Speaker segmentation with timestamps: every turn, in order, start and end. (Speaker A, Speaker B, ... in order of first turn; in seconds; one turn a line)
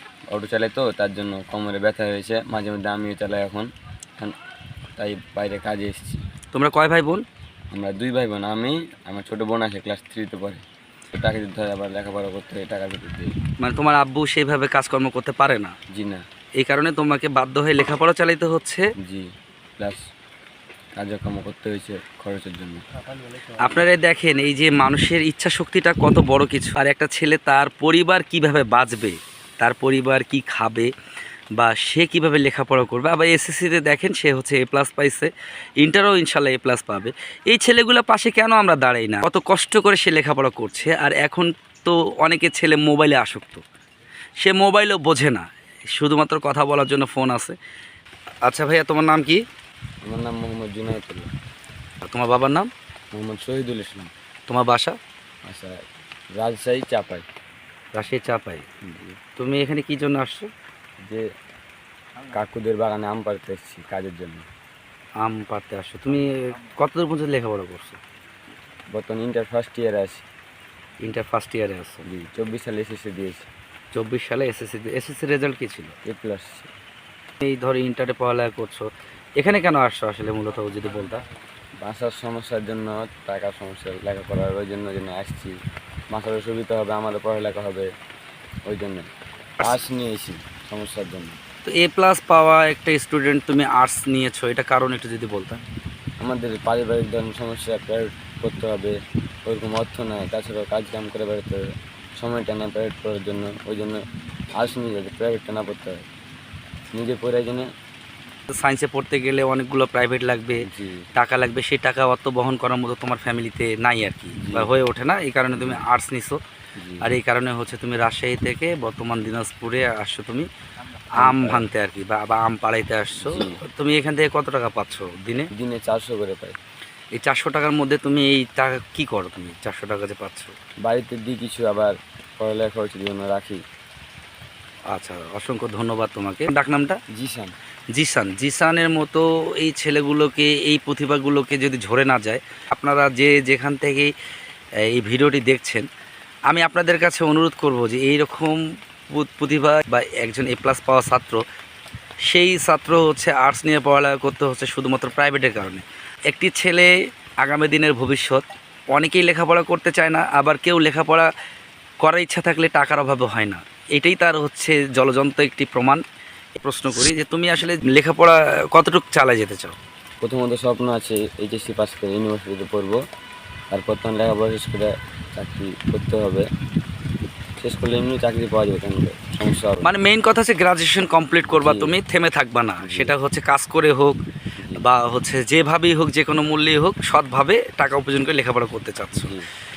Speaker A: 0.3-3.7
Speaker A: 5.0-6.2
Speaker B: 6.5-7.2
Speaker A: 7.7-13.3
Speaker B: 13.6-15.7
Speaker A: 15.9-16.2
Speaker B: 16.6-18.9
Speaker A: 19.0-19.2
Speaker A: 21.0-22.8
Speaker B: 23.6-30.9
Speaker B: 31.5-43.6
Speaker B: 44.4-47.5
Speaker B: 48.4-49.4
Speaker A: 50.0-51.3
Speaker B: 52.0-52.7
Speaker A: 53.1-54.1
Speaker B: 54.5-55.0
Speaker A: 55.5-55.8
Speaker A: 56.3-57.2
Speaker B: 57.9-58.8
Speaker B: 59.4-60.5
Speaker A: 62.3-64.4
Speaker B: 65.2-68.0
Speaker A: 68.9-70.2
Speaker B: 71.0-72.0
Speaker A: 72.1-73.5
Speaker B: 73.9-75.9
Speaker A: 76.0-76.7
Speaker B: 77.4-81.2
Speaker A: 81.8-85.5
Speaker A: 86.1-87.9
Speaker A: 88.7-89.1
Speaker A: 89.6-91.4
Speaker B: 91.6-95.6
Speaker A: 96.2-101.7
Speaker A: 102.2-104.0
Speaker A: 104.6-106.0
Speaker A: 106.9-107.7
Speaker B: 108.5-110.6
Speaker A: 110.6-111.1
Speaker B: 111.1-116.4
Speaker A: 114.4-114.7
Speaker A: 115.5-115.9
Speaker A: 116.8-117.1
Speaker B: 117.0-120.5
Speaker B: 121.2-125.5
Speaker A: 121.2-121.7
Speaker A: 123.2-123.6
Speaker A: 125.5-126.6
Speaker B: 127.1-130.5
Speaker A: 130.8-133.6
Speaker B: 134.9-137.0
Speaker A: 137.1-137.5
Speaker B: 137.9-144.1
Speaker B: 144.9-145.9
Speaker B: 146.5-148.6
Speaker B: 149.1-151.4
Speaker B: 152.2-161.3
Speaker B: 162.0-166.0
Speaker B: 166.6-169.8
Speaker A: 170.2-173.0
Speaker A: 173.7-176.4
Speaker A: 177.6-179.9
Speaker B: 179.8-184.2
Speaker A: 181.5-181.9
Speaker A: 182.8-183.1
Speaker A: 184.6-184.8
Speaker B: 184.8-189.3
Speaker A: 189.1-189.5